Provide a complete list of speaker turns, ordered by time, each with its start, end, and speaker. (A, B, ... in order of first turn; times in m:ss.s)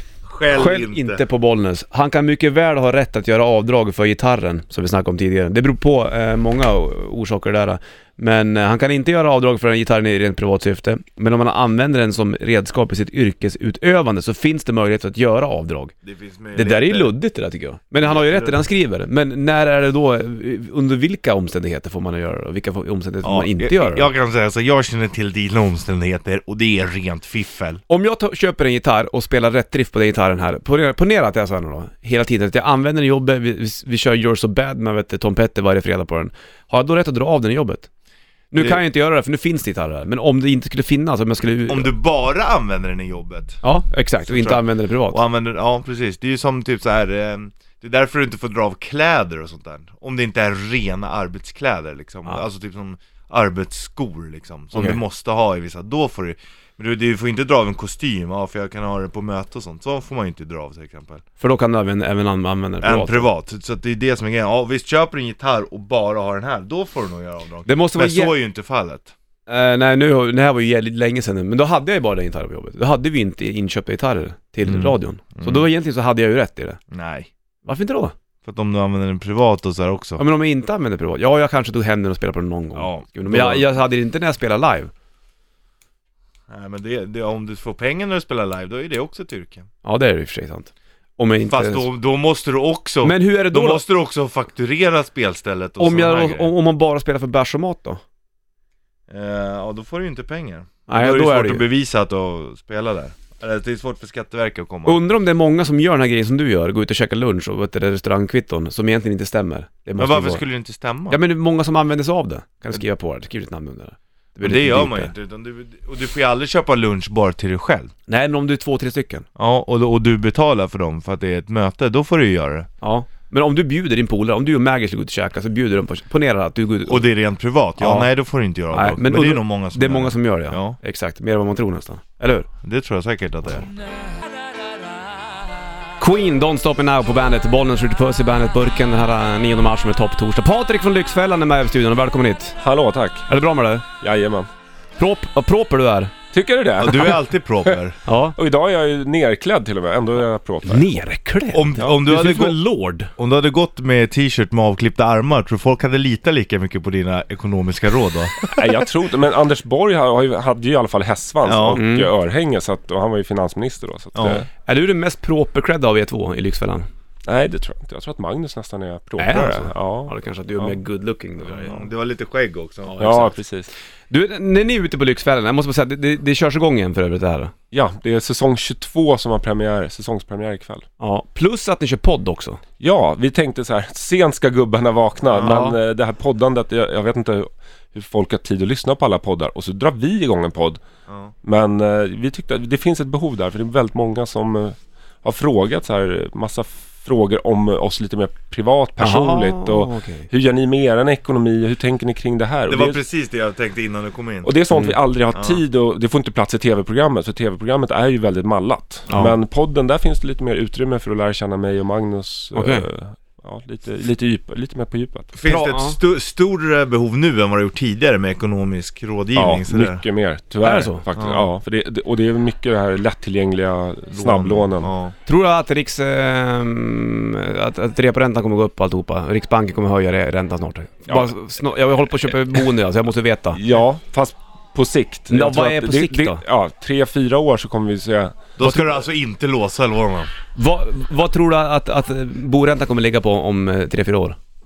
0:00.3-0:01.2 A
0:00.5-0:15.9 B
0:16.0-0:17.1 A
0:16.6-0:24.1 B
0:18.0-0:18.6 A
0:23.2-0:27.8 A
0:27.9-0:37.9 B
0:38.5-0:41.9 B
0:41.7-0:43.6 A
0:43.6-0:45.2 B
0:44.2-1:01.2 A
0:54.7-0:55.0 B
1:01.4-1:03.3 B
1:02.8-1:09.1 A
1:07.7-1:08.4 B
1:09.5-1:16.8 B
1:14.6-1:15.7 A
1:16.9-1:17.3 A
1:17.6-1:18.1 B
1:18.4-1:20.2 A
1:20.2-1:24.9 B
1:22.8-1:23.8 A
1:26.5-1:29.7 A
1:29.8-1:31.9 B
1:31.4-1:36.5 A
1:33.0-1:33.8 B
1:35.8-1:38.0 B
1:39.1-1:45.0 A
1:40.9-1:41.6 B
1:44.9-1:50.4 B
1:50.0-1:51.2 A
1:51.1-1:55.1 B
1:54.4-1:57.9 A
1:58.1-1:59.3 B
1:59.4-2:02.7 A
2:02.8-2:07.1 B
2:06.9-2:10.8 A
2:07.8-2:08.1 B
2:08.7-2:12.5 B
2:12.6-2:13.7 A
2:16.0-2:22.6 B
2:22.6-2:23.3 C
2:23.3-2:23.9 B
2:24.0-2:24.5 C
2:25.0-2:26.2 B
2:26.3-2:27.7 C
2:26.8-2:28.0 A
2:28.0-2:28.4 B
2:28.4-2:31.0 C
2:30.6-2:33.1 B
2:31.5-2:38.5 A
2:38.5-2:44.5 C
2:41.4-2:41.8 A
2:41.8-2:42.1 B
2:44.2-2:44.4 A
2:44.2-2:46.9 B
2:47.3-2:50.8 C
2:49.2-2:51.9 B
2:51.5-2:53.0 A
2:52.8-2:53.4 B
2:53.0-2:53.7 C
2:54.1-2:57.5 B
2:57.7-3:00.9 C
3:01.0-3:02.6 B
3:02.8-3:10.8 C
3:05.4-3:05.8 B
3:11.1-3:11.3 A
3:11.4-3:23.0 C
3:19.0-3:20.3 B
3:22.7-3:24.5 A
3:24.4-3:35.3 C
3:24.7-3:25.0 B
3:25.3-3:25.6 A
3:29.1-3:29.4 B
3:32.5-3:32.9 B
3:35.3-3:40.0 A
3:35.4-3:36.0 B
3:39.4-3:45.0 C
3:40.6-3:41.1 B
3:41.2-3:41.5 A
3:44.1-3:45.2 A
3:45.3-3:53.6 B
3:53.5-3:58.9 C
3:55.3-3:56.4 B
3:58.6-4:00.3 A
4:00.6-4:04.4 B